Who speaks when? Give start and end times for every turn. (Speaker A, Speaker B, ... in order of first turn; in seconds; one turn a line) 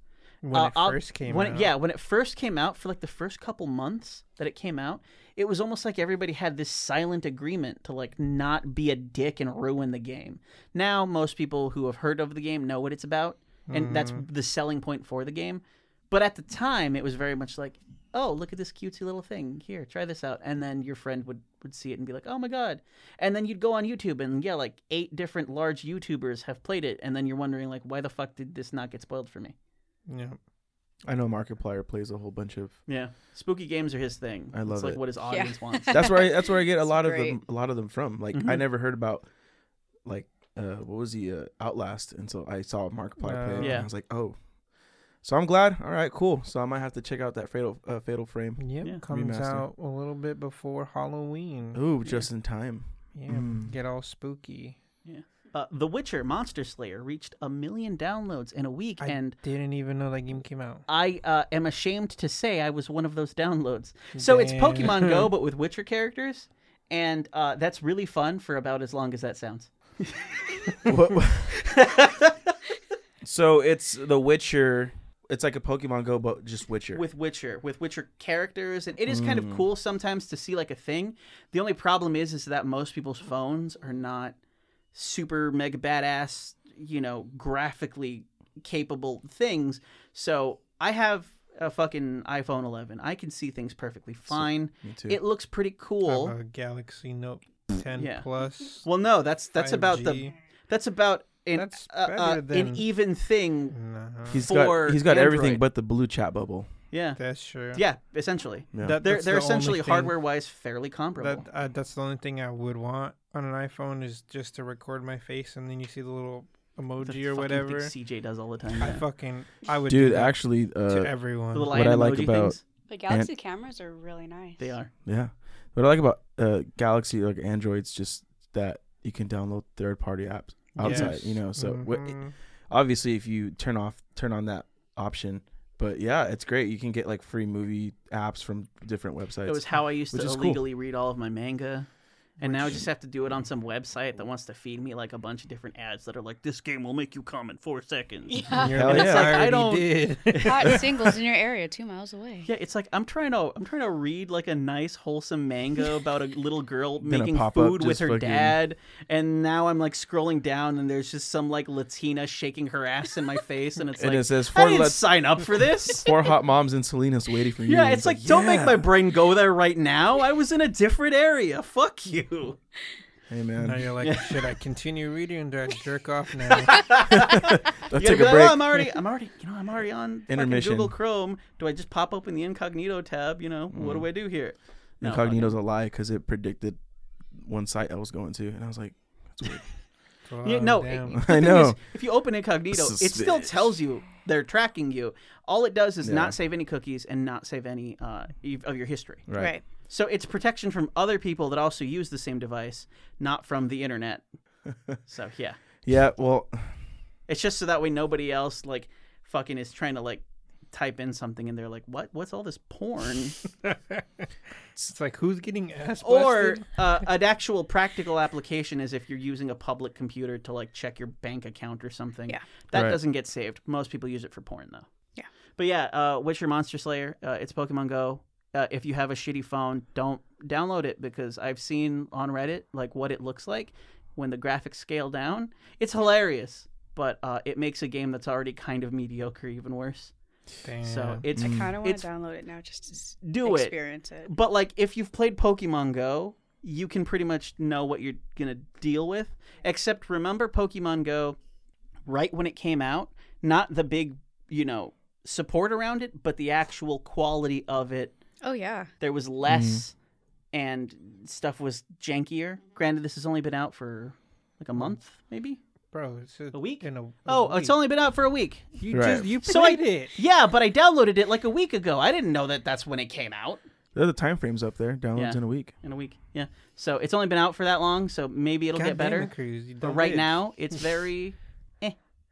Speaker A: 0.4-1.7
Speaker B: 0.5-29.6
Speaker A: 13.7-14.3
Speaker A: 30.1-30.4
Speaker C: 31.1-32.8
Speaker B: 32.9-36.1
Speaker C: 34.5-35.0
Speaker D: 35.3-37.4
Speaker C: 35.9-39.3
Speaker B: 38.3-38.6
Speaker C: 40.0-44.4
Speaker A: 43.2-43.8
Speaker B: 43.6-43.9
Speaker C: 45.2-49.6
Speaker A: 48.6-51.8
Speaker C: 51.7-53.7
Speaker A: 53.1-54.8
Speaker B: 55.0-59.4
Speaker A: 59.0-60.9
Speaker B: 60.9-70.8
Speaker A: 64.2-65.3
Speaker C: 70.9-71.6
Speaker B: 71.5-72.5
Speaker C: 73.2-77.0
Speaker B: 76.9-84.4
Speaker C: 79.1-79.6
Speaker B: 84.9-96.4
Speaker C: 94.3-95.2
Speaker A: 96.0-98.9
Speaker B: 98.0-98.3
Speaker B: 98.8-103.8
Speaker A: 99.6-100.3
Speaker A: 101.5-102.9
Speaker A: 103.7-104.5
Speaker C: 104.3-106.7
Speaker B: 104.4-105.6
Speaker B: 106.9-107.2
Speaker A: 107.2-107.8
Speaker B: 107.7-111.5
Speaker C: 108.7-109.0
Speaker A: 108.8-110.1
Speaker A: 111.2-117.9
Speaker B: 117.0-119.0
Speaker A: 118.8-121.8
Speaker C: 119.9-121.2
Speaker B: 121.5-122.6
Speaker C: 121.7-123.3
Speaker D: 122.9-124.7
Speaker B: 124.6-124.9
Speaker C: 125.0-140.6
Speaker B: 130.8-131.2
Speaker A: 130.8-132.3
Speaker B: 139.4-141.9
Speaker B: 142.4-150.8
Speaker A: 142.4-142.8
Speaker D: 148.3-148.8
Speaker A: 148.5-151.0
Speaker C: 148.7-149.5
Speaker D: 150.4-152.5
Speaker B: 152.4-166.1
Speaker C: 157.0-158.6
Speaker C: 164.0-168.9
Speaker B: 167.7-172.6
Speaker C: 173.3-173.9
Speaker A: 173.6-176.9
Speaker B: 174.0-174.5
Speaker B: 176.5-185.6
Speaker C: 177.1-178.8
Speaker C: 180.3-180.9
Speaker C: 183.7-184.1
Speaker C: 185.0-186.8
Speaker C: 187.3-189.7
Speaker A: 190.2-191.2
Speaker B: 190.4-204.3
Speaker C: 191.2-191.8
Speaker C: 192.7-193.8
Speaker C: 196.0-196.4
Speaker C: 199.3-199.6
Speaker D: 199.3-199.6
Speaker B: 205.0-205.6
Speaker C: 205.8-206.8
Speaker B: 207.3-213.4
Speaker A: 213.6-214.3
Speaker A: 214.8-216.8
Speaker B: 216.0-224.9
Speaker C: 222.7-223.0
Speaker B: 225.6-240.1
Speaker A: 240.6-241.2
Speaker B: 240.8-242.1
Speaker C: 241.3-241.7
Speaker D: 241.4-244.3
Speaker B: 243.2-251.4
Speaker B: 252.1-258.2
Speaker D: 258.4-258.9
Speaker B: 259.0-259.9
Speaker C: 259.5-259.8
Speaker B: 260.5-265.6
Speaker A: 265.9-267.8
Speaker B: 266.5-268.8
Speaker A: 268.8-270.2
Speaker C: 268.9-269.3
Speaker B: 269.4-273.6
Speaker C: 273.9-275.7
Speaker B: 275.1-282.0
Speaker A: 278.7-280.6